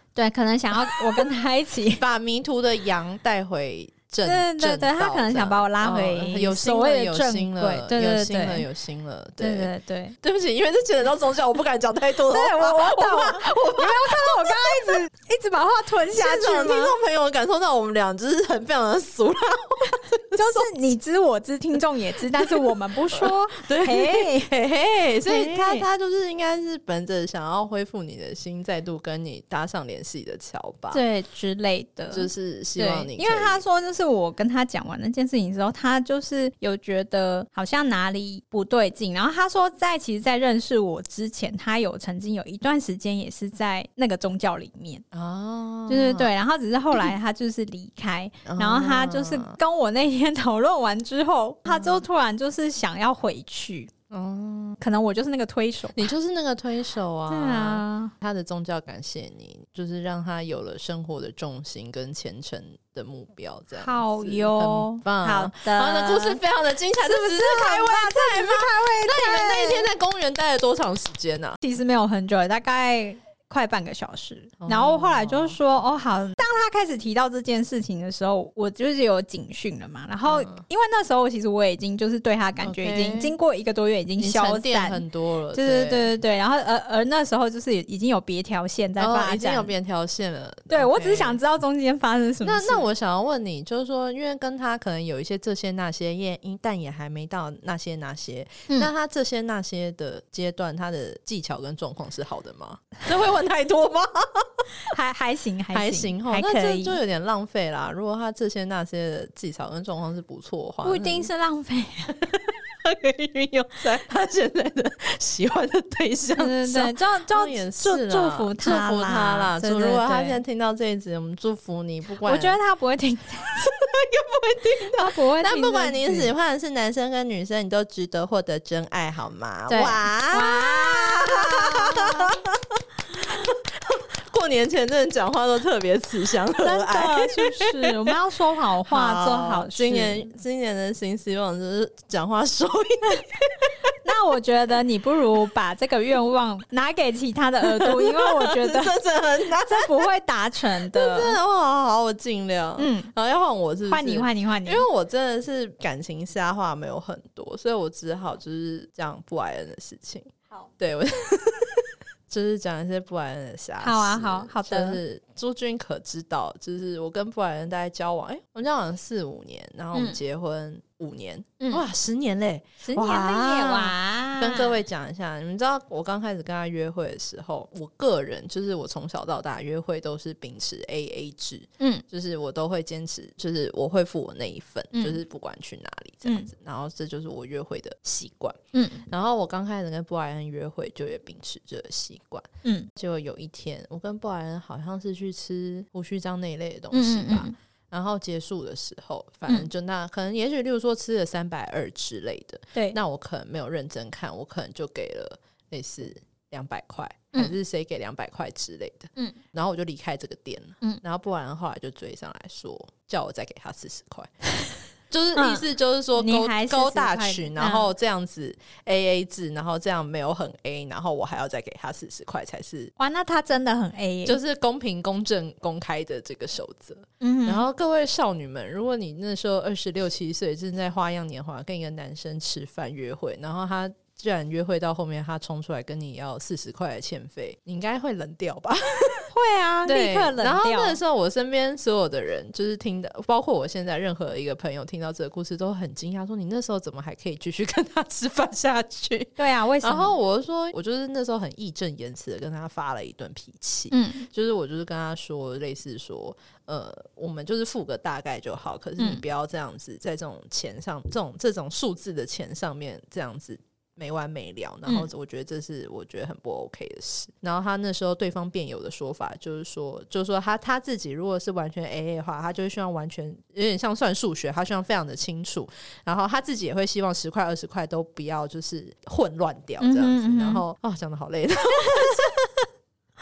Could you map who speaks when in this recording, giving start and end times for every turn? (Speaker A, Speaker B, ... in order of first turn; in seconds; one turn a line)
Speaker A: 0.1-2.0
Speaker B: 0.8-1.2
Speaker B: 1.9-9.7
Speaker A: 4.2-8.7
Speaker A: 9.4-10.2
Speaker B: 10.2-15.0
Speaker A: 12.3-16.9
Speaker B: 16.1-20.7
Speaker A: 20.3-24.5
Speaker B: 22.4-31.0
Speaker A: 25.2-25.9
Speaker A: 30.9-45.0
Speaker B: 32.1-33.6
Speaker B: 45.1-46.3
Speaker A: 45.9-53.9
Speaker B: 48.5-49.6
Speaker B: 51.7-52.0
Speaker B: 54.1-54.8
Speaker A: 54.8-56.1
Speaker B: 56.0-71.6
Speaker A: 57.3-58.1
Speaker A: 63.7-66.4
Speaker A: 67.0-69.9
Speaker A: 71.6-85.0
Speaker B: 74.6-75.6
Speaker B: 80.2-80.6
Speaker B: 82.6-83.4
Speaker B: 84.2-86.1
Speaker A: 85.5-89.7
Speaker B: 89.0-91.4
Speaker A: 90.7-92.9
Speaker B: 92.4-104.6
Speaker A: 104.9-107.0
Speaker B: 105.7-111.3
Speaker A: 110.8-112.2
Speaker B: 112.2-122.6
Speaker A: 116.4-120.4
Speaker A: 122.2-123.7
Speaker B: 123.5-138.2
Speaker A: 124.9-126.3
Speaker A: 129.7-132.4
Speaker A: 136.6-140.3
Speaker B: 138.9-143.9
Speaker A: 144.0-149.0
Speaker B: 147.6-150.1
Speaker A: 149.5-151.4
Speaker B: 150.8-214.3
Speaker A: 152.8-153.1
Speaker A: 153.9-154.8
Speaker A: 163.8-165.0
Speaker A: 172.8-174.8
Speaker A: 184.9-185.2
Speaker A: 188.7-189.1
Speaker A: 192.6-192.9
Speaker A: 196.9-197.5
Speaker B: 215.1-222.9
Speaker A: 215.3-217.9
Speaker A: 223.0-224.4
Speaker B: 224.2-239.3
Speaker A: 227.2-227.7
Speaker A: 239.3-241.0
Speaker B: 239.9-282.6
Speaker A: 249.4-250.1
Speaker A: 253.9-254.3
Speaker A: 279.8-280.6
Speaker A: 281.9-282.3